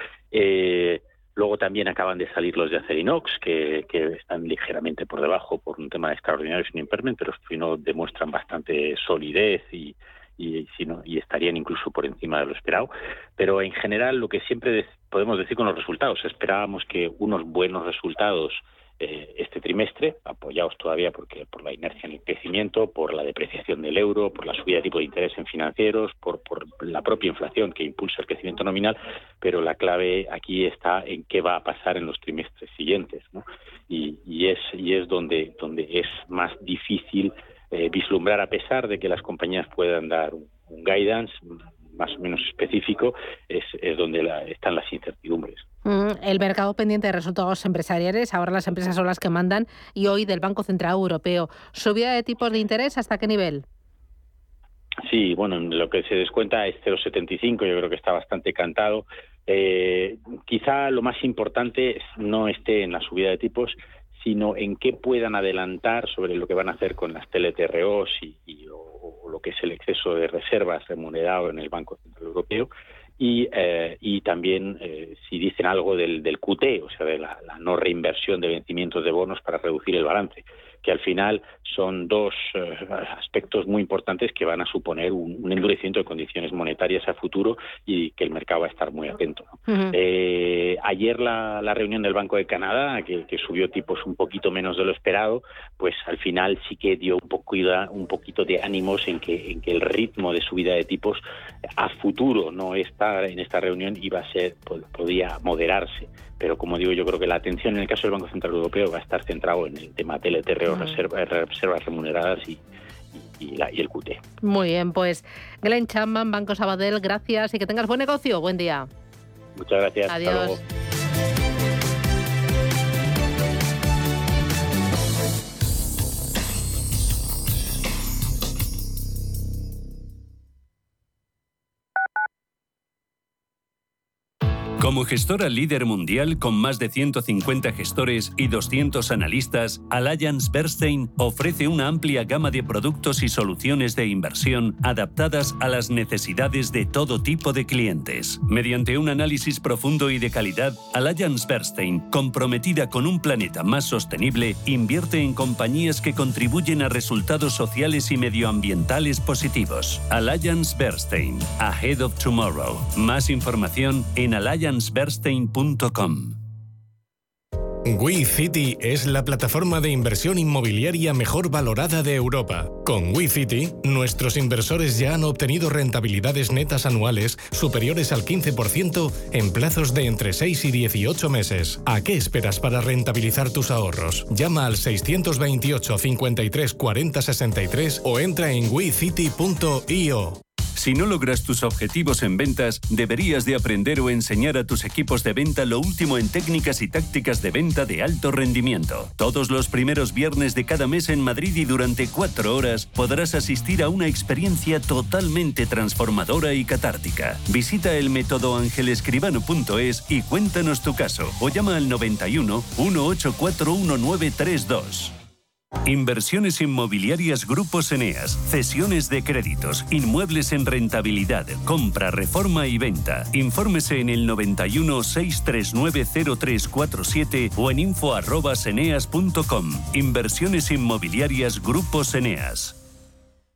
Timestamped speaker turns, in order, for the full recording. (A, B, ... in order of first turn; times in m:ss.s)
0:00.3-0:41.3 A
0:41.9-0:45.6 A
0:45.8-0:53.6 B
0:55.0-1:41.2 A
1:29.7-1:29.9 B
1:41.8-1:52.6 A
1:50.7-1:51.0 B
1:53.1-1:54.2 A
1:54.4-1:58.9 B
1:59.6-2:00.6 A
2:00.1-2:00.6 B
2:14.8-2:46.4 C
2:47.9-3:10.4 D
3:10.8-3:35.1 C
3:35.8-3:52.8 C